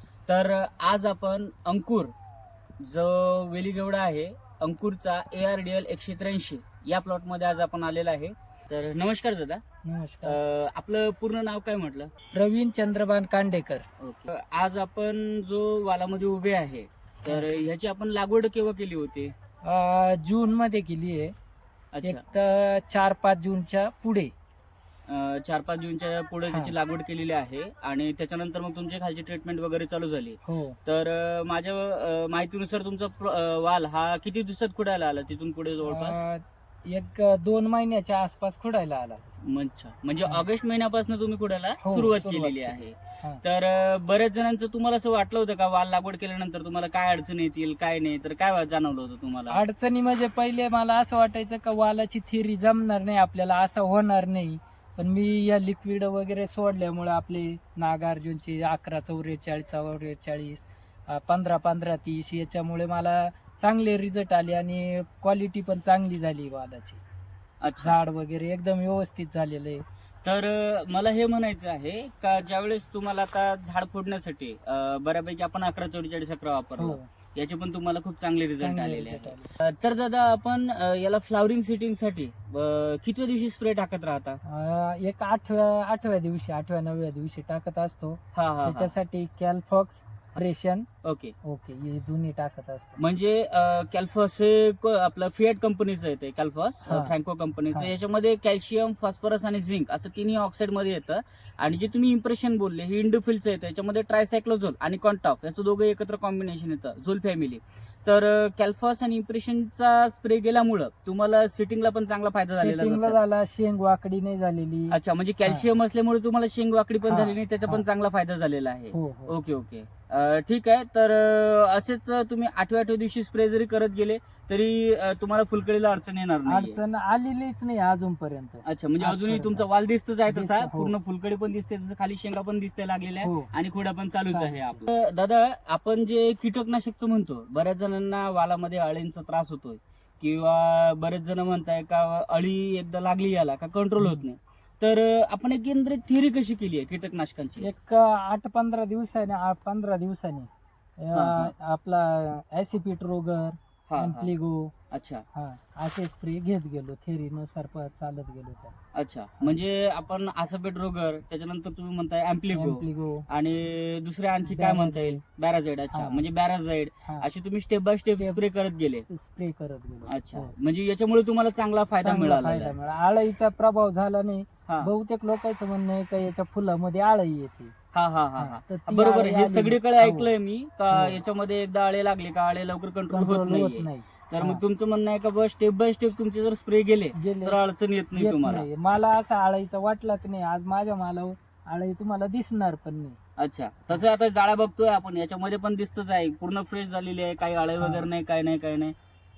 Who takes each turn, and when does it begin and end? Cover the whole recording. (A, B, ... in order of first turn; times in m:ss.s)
0:00.3-0:02.1 A
0:02.8-0:09.6 A
0:09.8-0:10.4 B
0:10.2-0:12.1 A
0:12.3-0:13.8 B
0:14.0-0:19.3 A
0:19.6-0:21.3 B
0:21.9-0:22.2 A
0:22.0-0:24.3 B
0:25.1-0:36.2 A
0:30.4-0:30.8 B
0:35.8-0:39.3 B
0:39.4-0:49.6 A
0:41.8-0:43.4 B
0:49.5-1:07.0 B
1:07.6-1:08.0 A
1:07.8-1:09.8 B
1:10.2-1:24.4 A
1:16.8-1:17.1 B
1:18.6-1:19.5 B
1:24.4-1:30.9 B
1:28.3-1:28.9 A
1:31.0-1:31.3 A
1:31.4-1:33.0 B
1:33.0-1:53.2 A
1:36.8-1:37.1 B
1:52.6-1:55.6 B
1:54.9-2:06.8 A
1:57.1-1:57.8 B
1:58.9-1:59.3 B
2:06.4-2:09.7 B
2:08.6-2:27.7 A
2:10.3-2:10.9 B
2:13.2-2:13.5 B
2:14.3-2:14.8 B
2:24.0-2:24.2 B
2:27.6-2:34.7 B
2:31.1-2:31.5 A
2:33.9-2:34.3 A
2:34.9-2:35.2 A
2:35.3-2:38.7 B
2:38.9-2:49.1 A
2:42.5-2:43.2 B
2:44.5-2:45.2 B
2:45.9-2:46.2 B
2:49.1-2:50.5 B
2:50.0-2:52.7 A
2:52.0-2:57.7 B
2:57.9-3:08.7 A
2:58.4-3:00.3 B
3:00.9-3:01.2 B
3:03.1-3:04.6 B
3:07.1-3:07.6 B
3:08.1-3:13.2 B
3:13.4-3:18.9 A
3:17.8-3:18.1 B